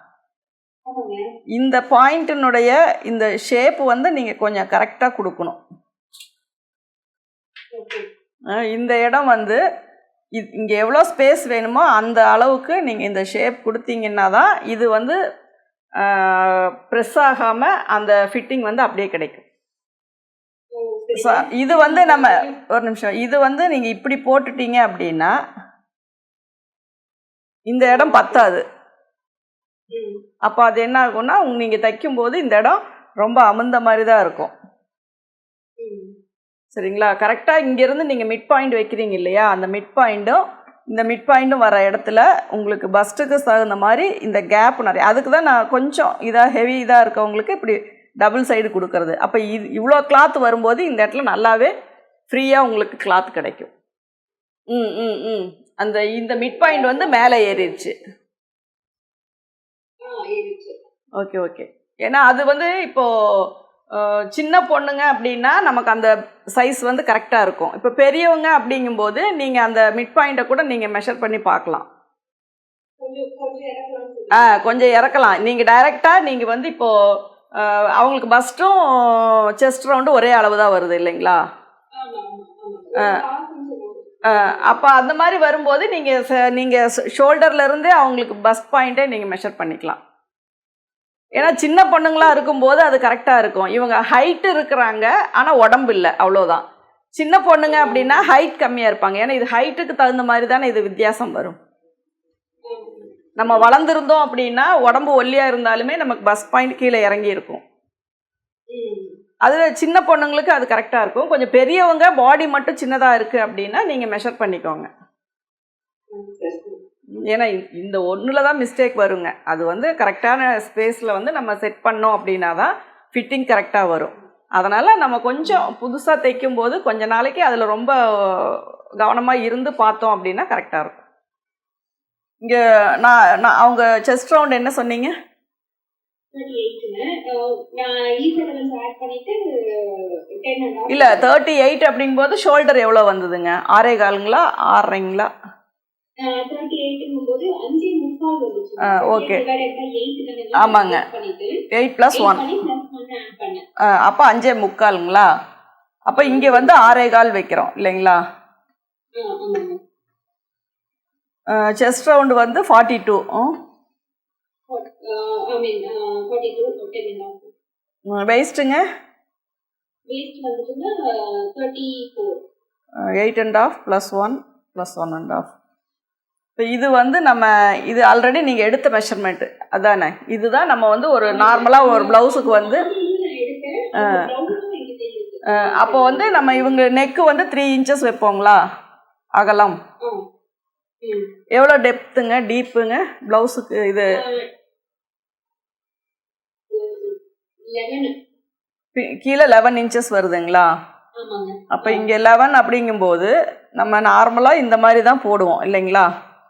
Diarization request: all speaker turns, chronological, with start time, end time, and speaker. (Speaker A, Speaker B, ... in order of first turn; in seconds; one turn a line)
Speaker A: 0.8-1.3
Speaker B: 1.5-5.6
Speaker A: 7.7-8.1
Speaker B: 8.5-9.6
Speaker B: 10.3-15.2
Speaker B: 16.0-19.4
Speaker A: 20.7-22.6
Speaker B: 21.1-25.4
Speaker B: 27.7-28.6
Speaker A: 27.9-28.5
Speaker A: 29.9-30.2
Speaker B: 30.4-34.5
Speaker A: 35.8-36.1
Speaker B: 36.7-51.7
Speaker B: 52.3-53.7
Speaker B: 54.7-58.0
Speaker A: 56.4-57.9
Speaker A: 60.0-60.8
Speaker B: 61.2-71.8
Speaker A: 73.0-75.2
Speaker B: 74.3-81.4
Speaker A: 82.0-84.8
Speaker B: 84.3-90.0
Speaker A: 91.3-91.6
Speaker B: 91.3-96.6
Speaker B: 97.2-101.6
Speaker A: 97.7-98.3
Speaker A: 102.7-103.7
Speaker B: 103.4-107.6
Speaker A: 108.7-109.2
Speaker B: 109.4-114.9
Speaker A: 116.1-116.8
Speaker B: 117.2-131.0
Speaker B: 132.4-135.1
Speaker A: 136.3-141.3
Speaker B: 140.9-145.3
Speaker A: 146.2-151.6
Speaker B: 148.8-149.4
Speaker B: 150.5-151.0
Speaker B: 151.7-152.4
Speaker A: 152.1-153.7
Speaker B: 153.8-155.3
Speaker B: 156.1-158.2
Speaker A: 156.1-156.9
Speaker A: 159.2-159.8
Speaker B: 161.5-163.5
Speaker A: 164.7-167.5
Speaker B: 168.1-168.8
Speaker A: 170.1-172.4
Speaker B: 173.2-175.5
Speaker B: 176.6-182.8
Speaker A: 181.2-186.8
Speaker B: 183.9-184.3
Speaker B: 185.5-188.6
Speaker B: 189.3-189.8
Speaker A: 191.0-191.3
Speaker B: 191.5-194.2
Speaker A: 194.1-194.5
Speaker A: 196.7-198.1
Speaker B: 198.9-200.7
Speaker A: 201.2-202.1
Speaker B: 201.7-206.1